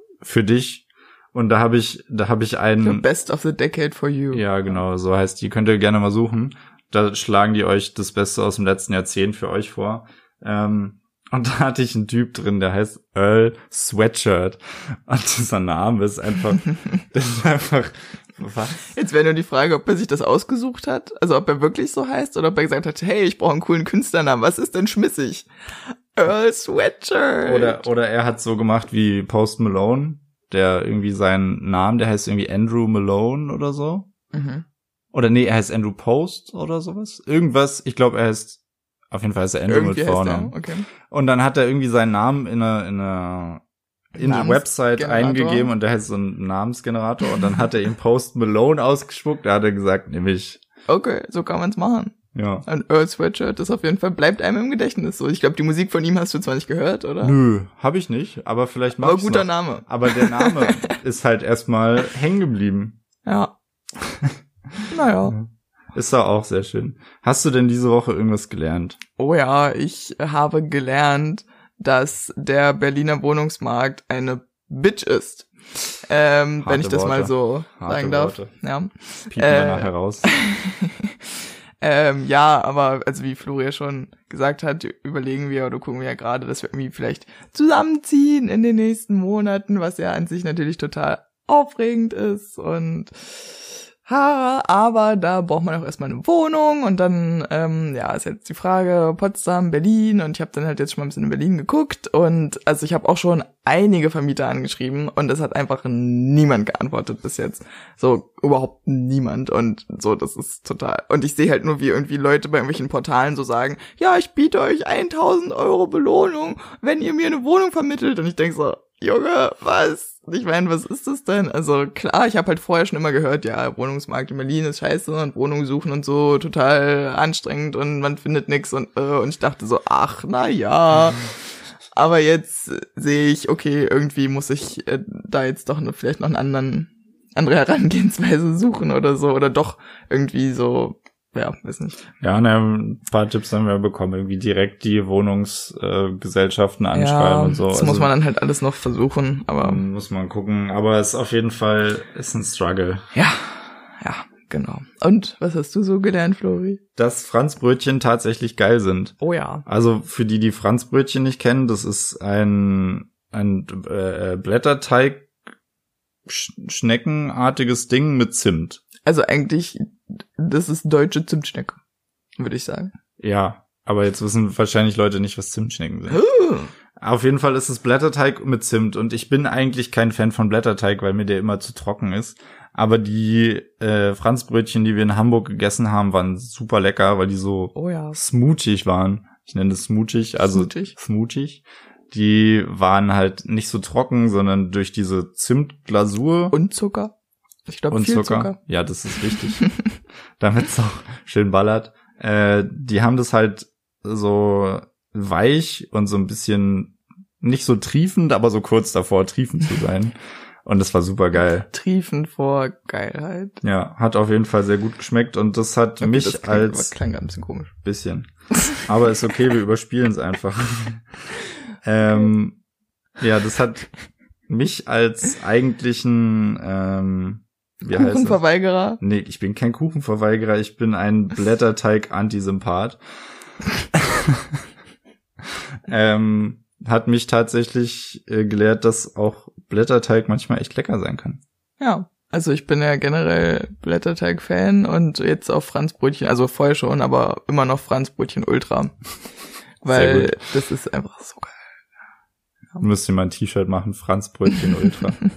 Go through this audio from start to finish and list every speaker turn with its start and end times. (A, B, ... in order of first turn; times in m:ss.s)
0:00.2-0:03.0 A
0:02.8-0:04.7 B
0:04.3-0:18.9 A
0:18.9-0:25.5 B
0:26.1-0:27.9 B
0:27.4-0:34.1 A
0:34.3-0:34.6 B
0:35.1-0:40.6 A
0:39.7-0:40.9 B
0:41.1-0:43.6 A
0:44.2-0:50.6 A
0:44.2-0:45.7 B
0:50.9-0:52.2 B
0:52.3-0:52.6 A
0:52.7-0:57.4 B
0:57.2-1:03.0 A
0:59.0-1:01.0 B
1:03.3-1:03.5 B
1:04.0-1:09.0 A
1:04.9-1:05.4 B
1:09.2-1:15.5 B
1:16.0-1:21.2 B
1:16.6-1:18.5 A
1:19.3-1:20.3 A
1:21.8-2:22.0 B
2:22.2-2:28.1 A
2:26.9-2:29.8 B
2:29.6-2:33.1 A
2:33.2-2:36.8 B
2:37.0-2:45.3 A
2:39.2-2:39.6 B
2:46.3-2:48.8 A
2:49.0-2:51.8 B
2:52.4-2:52.9 B
2:53.2-2:56.2 A
2:56.1-2:56.7 B
2:57.0-3:16.6 A
3:07.8-3:08.2 B
3:10.5-3:10.9 B
3:16.5-3:17.1 B
3:17.7-3:18.6 B
3:17.9-3:19.7 A
3:20.4-3:31.7 A
3:31.6-3:33.6 B
3:33.6-3:36.9 A
3:36.0-3:37.7 B
3:37.8-3:41.2 A
3:41.8-3:42.6 A
3:43.2-3:43.9 A
3:44.5-3:48.4 A
3:47.8-3:49.0 B
3:49.0-3:53.0 A
3:53.9-3:54.6 A
3:55.9-4:01.4 A
4:01.8-4:09.0 B
4:09.8-4:11.5 B
4:09.9-4:10.4 A
4:12.8-4:15.2 A